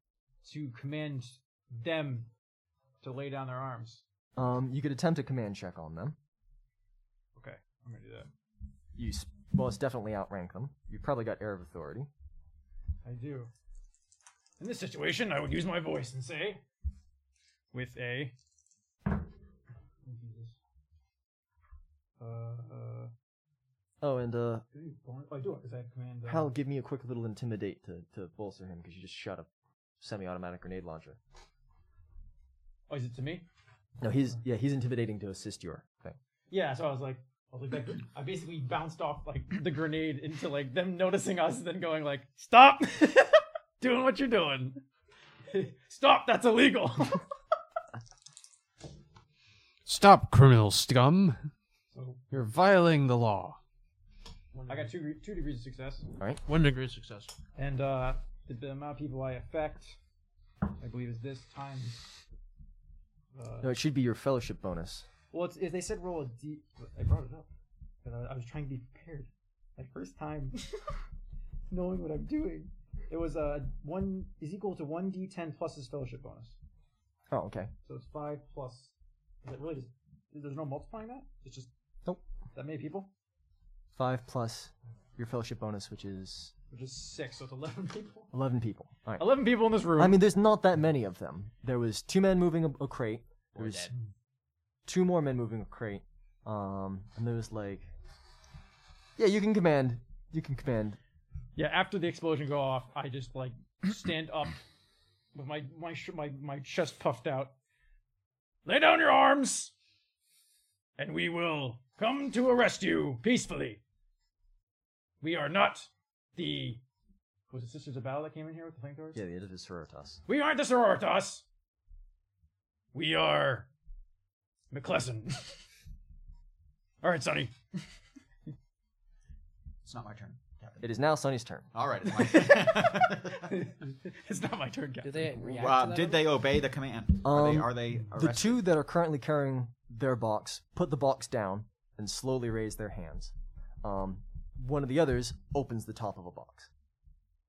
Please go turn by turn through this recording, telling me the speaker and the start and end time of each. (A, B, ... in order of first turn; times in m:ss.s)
0:00.4-0:02.3 A
0:03.0-0:04.0 A
0:04.4-0:06.2 B
0:07.4-0:08.3 A
0:09.0-0:12.1 B
0:13.0-0:13.5 A
0:14.6-0:16.6 A
0:17.7-0:18.3 A
0:20.0-0:20.6 A
0:22.2-0:23.1 A
0:24.0-0:24.6 B
0:24.7-0:26.5 A
0:26.2-0:29.5 B
0:30.0-0:31.2 B
0:32.9-0:33.4 A
0:34.0-0:36.2 B
0:36.5-0:44.8 A
0:45.5-0:47.2 A
0:49.8-0:51.4 C
0:51.9-0:52.2 A
0:52.3-0:53.6 C
0:54.5-0:54.9 D
0:54.7-0:56.1 A
0:56.4-0:57.3 D
0:57.6-1:00.0 A
1:00.8-1:02.0 A
1:03.3-1:03.7 A
1:03.6-1:05.0 B
1:05.3-1:07.5 A
1:08.0-1:11.0 A
1:11.7-1:16.5 A
1:17.3-1:17.7 B
1:17.8-1:18.9 A
1:19.4-1:21.7 A
1:22.5-1:23.1 A
1:24.0-1:26.5 B
1:26.7-1:28.3 A
1:28.3-1:33.9 B
1:29.2-1:30.2 A
1:33.6-1:33.9 D
1:34.9-1:37.9 B
1:39.2-1:41.0 B
1:41.6-1:44.6 A
1:45.3-1:47.5 A
1:48.6-1:49.7 A
1:51.0-1:53.8 A
1:55.2-1:56.8 A
1:57.5-1:59.2 A
1:59.1-2:00.2 B
2:00.3-2:01.4 A
2:02.9-2:03.7 A
2:04.7-2:05.6 A
2:07.0-2:07.8 A
2:09.8-2:10.9 E
2:10.8-2:11.7 B
2:11.7-2:13.5 E
2:12.1-2:15.5 A
2:15.0-2:16.3 D
2:15.5-2:18.6 E
2:17.2-2:26.7 B